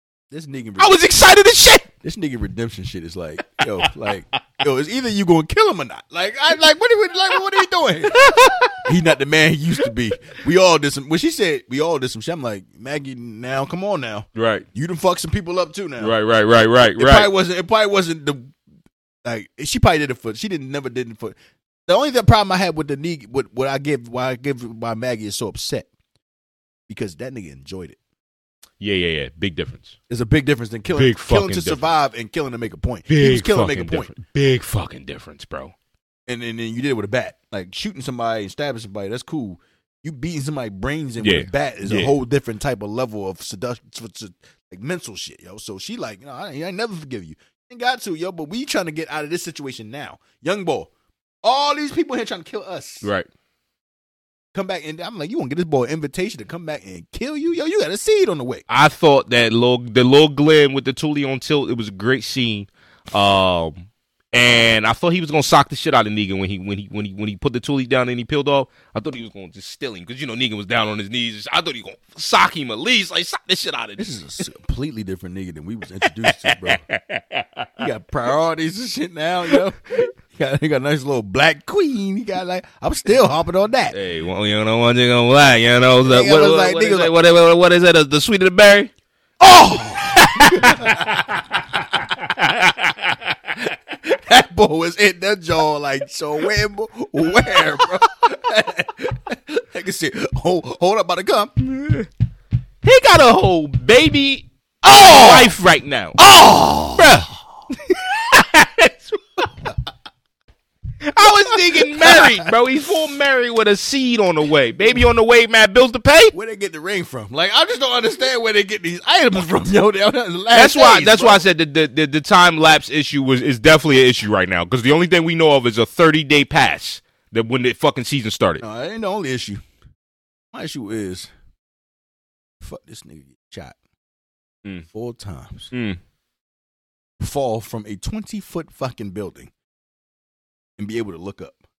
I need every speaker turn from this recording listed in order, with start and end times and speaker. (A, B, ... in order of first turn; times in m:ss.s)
0:00.3-0:01.0 A
0:00.8-0:01.9 B
0:02.0-0:08.2 A
0:03.8-0:04.1 B
0:08.1-0:08.9 B
0:08.8-0:16.2 A
0:14.4-0:14.7 B
0:16.0-0:17.3 B
0:17.0-0:18.5 A
0:19.2-0:21.4 A
0:21.9-0:25.9 A
0:26.9-0:28.0 A
0:28.8-0:29.9 B
0:30.1-0:34.1 A
0:30.9-0:31.8 B
0:33.1-0:35.7 B
0:36.3-0:50.9 A
0:41.2-0:42.1 B
0:51.4-0:53.1 A
0:54.5-0:58.6 A
0:58.7-1:14.1 B
1:14.0-1:16.8 A
1:16.0-1:17.9 B
1:17.8-1:24.0 A
1:23.9-1:28.9 B
1:26.0-1:27.1 A
1:29.4-1:31.2 A
1:29.8-1:33.5 B
1:33.9-1:41.9 A
1:42.8-1:46.2 B
1:44.8-1:45.6 A
1:46.2-1:47.2 A
1:47.0-1:49.5 B
1:51.1-1:56.3 B
1:51.8-1:52.2 A
1:56.3-2:01.4 A
2:00.5-2:08.6 B
2:08.6-2:09.6 A
2:10.5-2:11.3 A
2:12.6-2:13.8 A
2:14.9-2:15.7 A
2:15.7-2:16.0 B
2:17.2-2:19.5 A
2:20.8-2:21.6 A